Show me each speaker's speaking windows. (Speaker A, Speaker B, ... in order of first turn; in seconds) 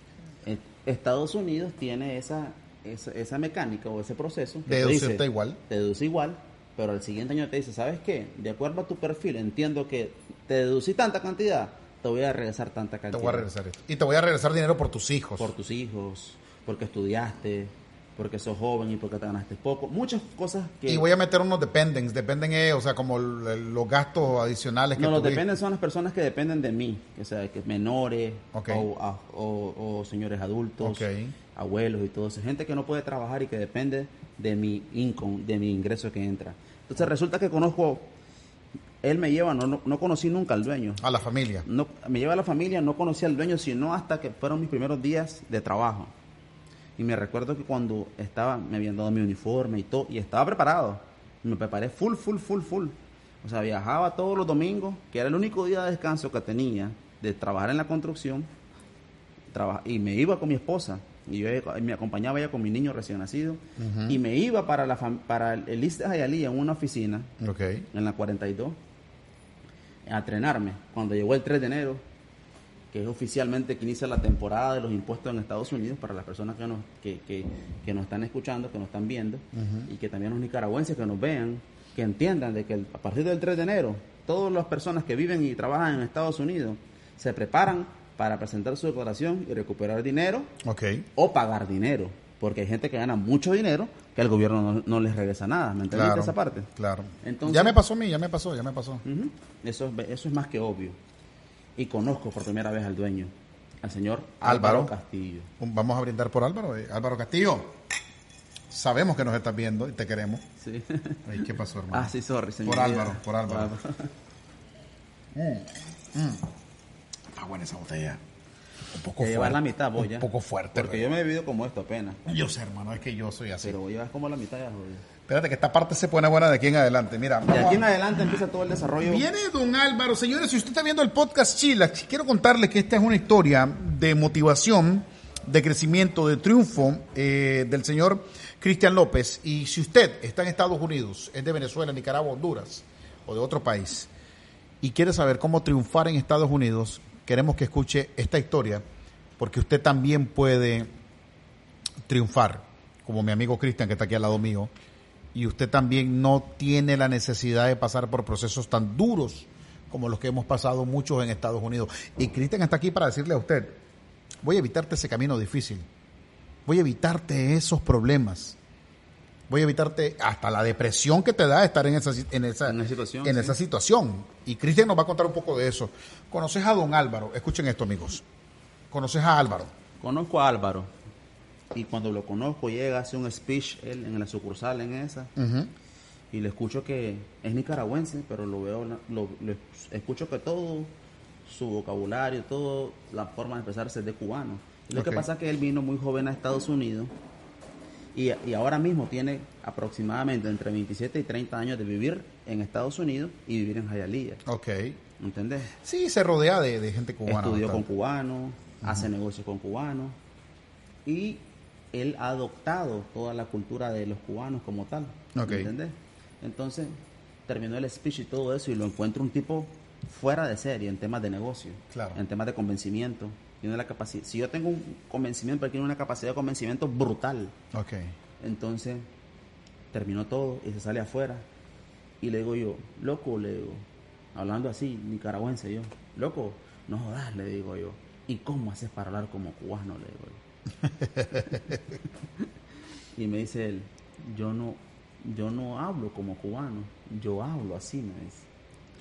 Speaker A: 0.4-13.5, 15.4-21.0, 25.0-38.1, 39.0-41.0, 41.6-46.1, 47.0-58.5, 59.5-67.3, 67.9-68.8, 70.0-72.0, 72.9-90.5, 91.2-96.7, 97.2-97.8, 99.0-101.0, 101.8-105.5, 110.6-114.1, 119.2-122.2, 123.6-125.0, 127.5-129.2, 172.7-173.6, 180.0-180.9, 181.7-185.3, 186.3-190.9, 191.4-197.1, 198.1-204.4, 205.2-205.7, 207.2-210.2, 211.0-216.9, 217.5-227.5, 228.4-229.1, 229.9-231.4, 232.2-233.8, 234.3-240.4, 243.1-248.4
Speaker B: 4.7-5.6, 13.1-15.5, 20.9-25.4, 28.5-28.9, 30.8-31.3, 41.0-41.6, 63.8-64.2, 67.4-67.8, 79.5-79.9, 90.6-91.0, 95.9-99.0, 104.4-104.9, 105.6-107.8, 108.7-110.4, 111.3-112.1, 112.6-113.7, 115.3-116.5, 117.3-118.2, 118.9-121.0, 122.2-123.8, 125.3-128.3, 129.0-144.1, 144.8-148.8, 149.4-150.9, 152.1-154.7, 155.3-163.8, 164.4-165.9, 166.7-168.6, 169.5-178.2, 178.9-179.7, 185.4-185.7, 194.9-195.2, 204.4-205.0, 205.8-207.8, 215.3-215.7, 221.9-222.2, 227.7-228.1, 240.8-241.8